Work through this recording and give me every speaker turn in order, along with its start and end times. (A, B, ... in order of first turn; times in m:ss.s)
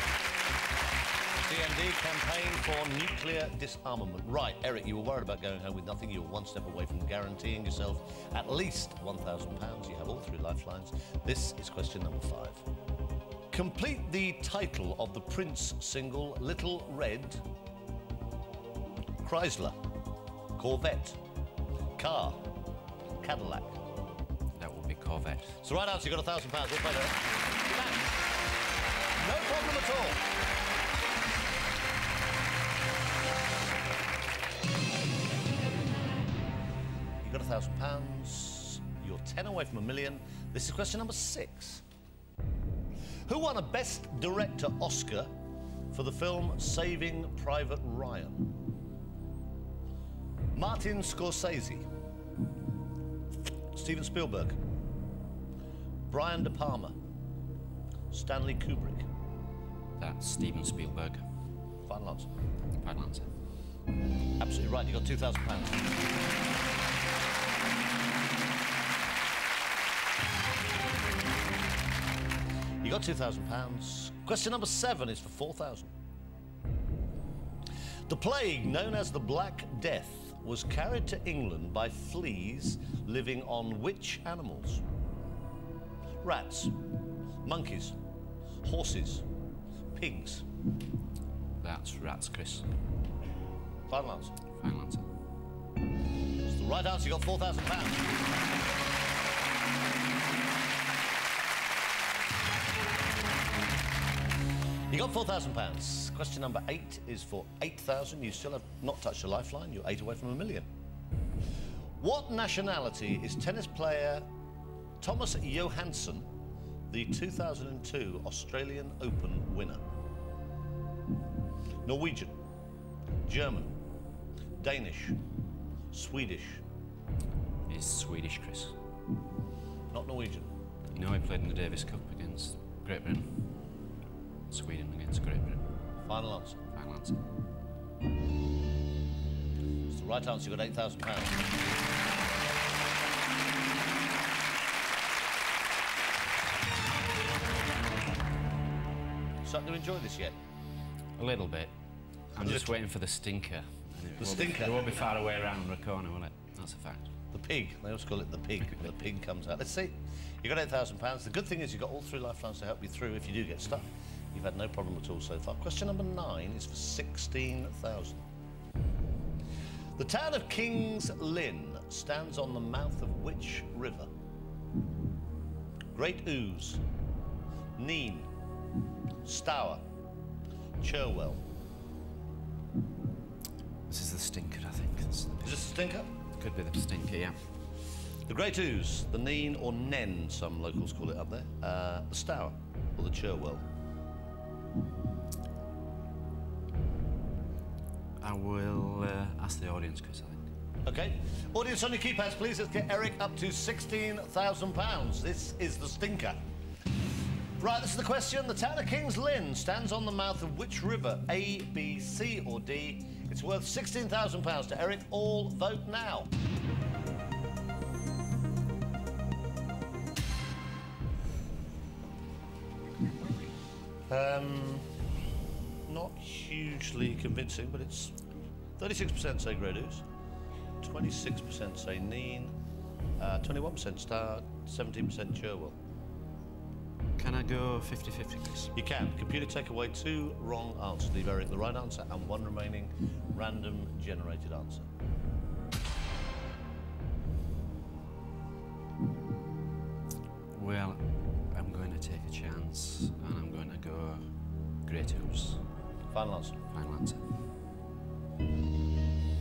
0:01.4-0:12.6 A
0:13.5-0:17.4 A
0:19.2-0:19.8 A
0:20.6-0:21.2 A
0:22.0-0:22.5 A
0:23.2-0:23.8 A
0:24.6-0:25.6 B
0:25.6-0:28.2 A
0:29.2-0:30.2 A
0:37.2-0:41.8 A
0:43.3-0:45.3 A
0:45.9-0:48.5 A
0:50.6-0:51.9 A
0:53.7-0:54.6 A
0:56.1-0:57.0 A
0:58.1-0:59.1 A
1:00.0-1:01.2 B
1:01.9-1:02.3 A
1:02.8-1:03.3 B
1:04.4-1:05.9 A
1:12.8-1:15.9 A
1:18.1-1:24.8 A
1:26.2-1:26.8 A
1:27.4-1:28.0 A
1:28.6-1:29.2 A
1:29.9-1:30.4 A
1:31.6-1:32.6 B
1:33.9-1:34.4 A
1:34.6-1:35.1 B
1:36.4-1:38.1 A
1:44.9-1:50.7 A
1:52.0-1:54.3 A
1:55.0-1:56.3 A
1:56.9-1:59.8 A
2:01.8-2:02.4 A
2:03.3-2:03.7 A
2:04.6-2:05.2 A
2:05.9-2:06.6 A
2:07.7-2:08.8 B
2:09.9-2:10.5 A
2:10.9-2:13.6 B
2:14.5-2:15.7 B
2:16.0-2:16.6 A
2:16.7-2:17.2 B
2:19.9-2:21.4 A
2:29.4-2:30.4 A
2:31.2-2:31.7 B
2:32.3-2:37.1 B
2:32.4-2:32.8 A
2:34.2-2:34.9 A
2:37.3-2:48.3 A
2:50.0-2:54.1 A
2:55.9-2:56.8 A
2:57.8-2:58.3 A
2:59.2-2:59.8 A
3:00.8-3:01.4 A
3:03.9-3:05.7 B
3:05.4-3:06.1 A
3:06.4-3:07.4 B
3:08.3-3:13.6 A
3:18.2-3:20.4 B
3:20.8-3:26.4 A
3:27.6-3:36.3 A
3:44.1-3:44.9 A
3:45.9-3:48.2 A
3:48.8-3:50.0 A
3:50.8-3:52.6 A
3:53.2-3:55.8 A
3:57.2-3:58.7 B
3:58.7-4:04.9 A
4:10.5-4:15.6 B
4:16.1-4:16.6 A
4:16.7-4:17.2 B